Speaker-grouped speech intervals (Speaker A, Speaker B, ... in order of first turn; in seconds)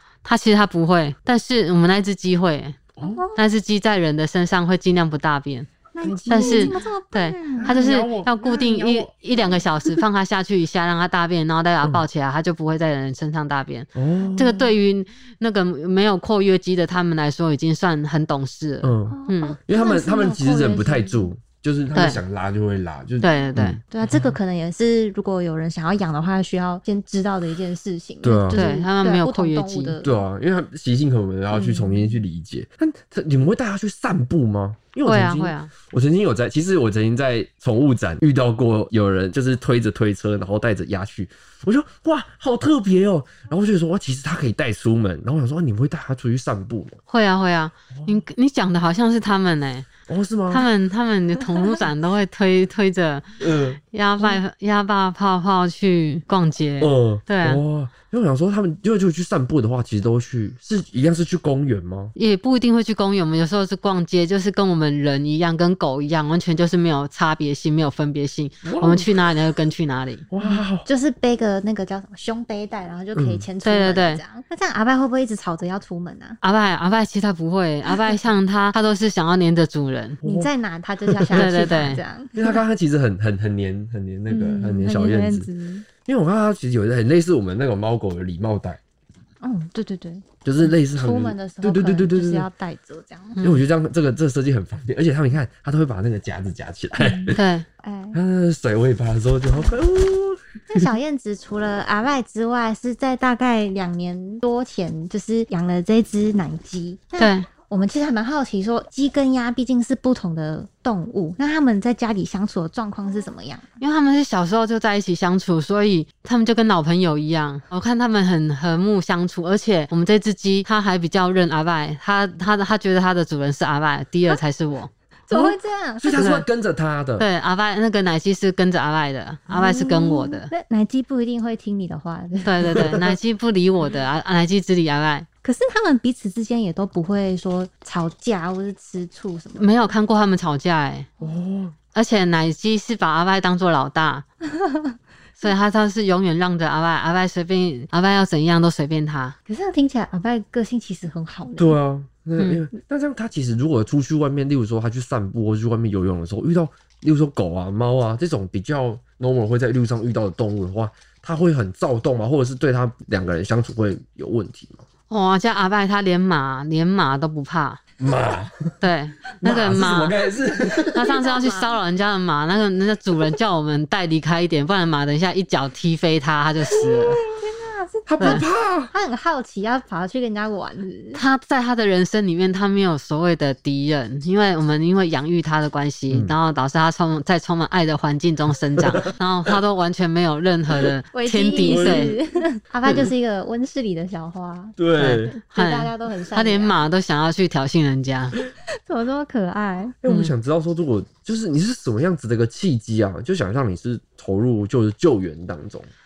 Speaker A: 0.2-2.8, 3.4-5.7, 6.3-19.6, 21.9-22.2, 23.2-23.8, 28.5-30.0, 35.0-35.7, 47.1-49.9, 50.5-53.2, 53.9-57.6, 62.1-70.2, 73.6-74.2, 76.4-80.2, 81.3-82.0, 93.4-93.7, 97.3-97.7, 107.2-107.5, 113.8-124.9, 126.1-126.5, 127.2-130.5, 132.4-135.3, 139.6-141.1, 141.9-144.2, 145.4-149.3, 152.4-152.6, 165.1-167.8, 168.8-170.1, 170.9-177.2, 178.2-178.4, 181.1-192.2, 194.9-198.4, 200.1-200.3
Speaker B: 3.0-3.2, 6.0-6.8, 7.6-10.0, 13.9-14.4, 18.8-24.4, 28.2-28.6, 30.0-47.0, 50.1-50.7, 53.4-54.4, 56.8-62.1, 68.6-69.1, 70.3-70.9, 73.2-73.5, 80.2-80.5, 81.0-81.7, 82.3-85.5, 86.0-88.8, 90.4-92.5, 93.4-97.4, 98.1-100.8, 125.3-127.3, 132.7-133.1, 141.2-141.7, 151.6-164.8, 168.0-168.8, 169.4-171.1, 178.1-178.9, 186.1-186.4, 191.6-192.2, 192.9-193.1, 194.8-195.4, 200.0-205.9
Speaker C: 3.0-3.4, 5.9-7.9, 14.2-14.8, 19.1-21.3, 23.4-30.2, 31.5-32.2, 70.4-76.4, 77.9-78.1, 80.2-82.6, 84.3-85.8, 89.4-93.4, 97.0-98.2, 100.7-113.6, 125.3-126.2, 129.5-132.9, 135.4-139.8, 144.5-145.0, 149.5-151.8, 170.9-171.8, 177.1-181.2, 191.1-196.8, 198.8-200.0